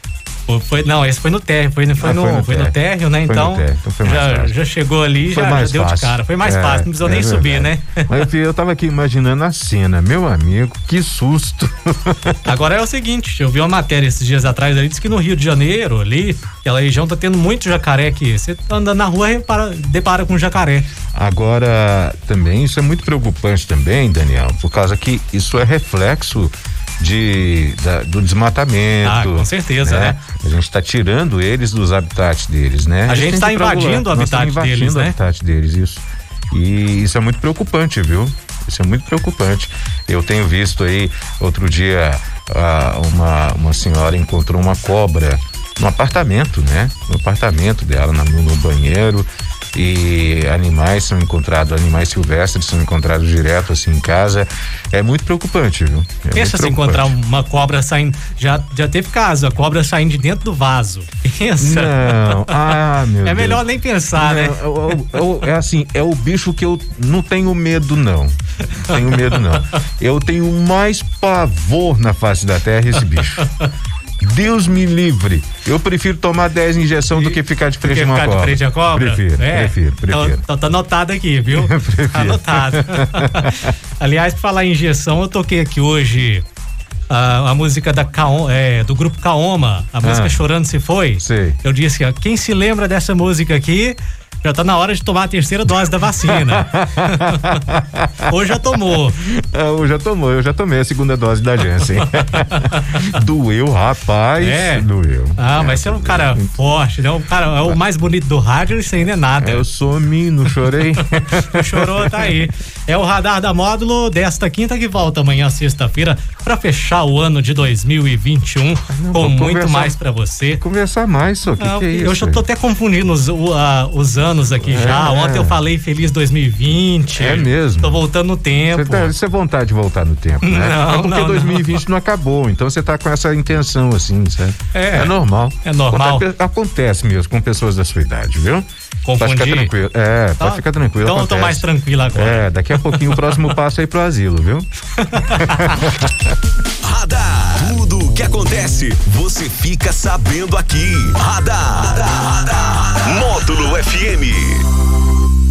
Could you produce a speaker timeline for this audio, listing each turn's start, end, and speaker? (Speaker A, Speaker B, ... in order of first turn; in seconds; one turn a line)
Speaker A: 0.5-8.2
Speaker B: 2.0-4.6
Speaker B: 5.3-12.4
Speaker A: 12.4-20.9
Speaker B: 21.1-57.1
Speaker A: 29.0-30.2
Speaker A: 33.1-35.2
Speaker A: 56.3-65.1
Speaker B: 61.6-73.5
Speaker A: 68.9-69.4
Speaker B: 74.2-80.4
Speaker A: 77.1-86.4
Speaker B: 81.5-83.7
Speaker A: 87.1-97.7
Speaker B: 90.0-90.4
Speaker B: 91.2-91.6
Speaker B: 96.2-98.6
Speaker A: 98.2-99.2
Speaker B: 99.1-106.5
Speaker A: 102.0-103.2
Speaker A: 104.4-109.7
Speaker B: 109.4-112.4
Speaker A: 111.3-120.6
Speaker B: 118.9-120.0
Speaker B: 120.6-122.5
Speaker A: 121.6-129.1
Speaker B: 124.6-125.6
Speaker B: 127.1-128.1
Speaker B: 128.7-138.7
Speaker A: 130.4-131.8
Speaker A: 134.7-136.3
Speaker A: 139.0-139.7
Speaker B: 139.2-146.2
Speaker A: 140.4-143.6
Speaker A: 145.0-146.0
Speaker C: 146.8-154.7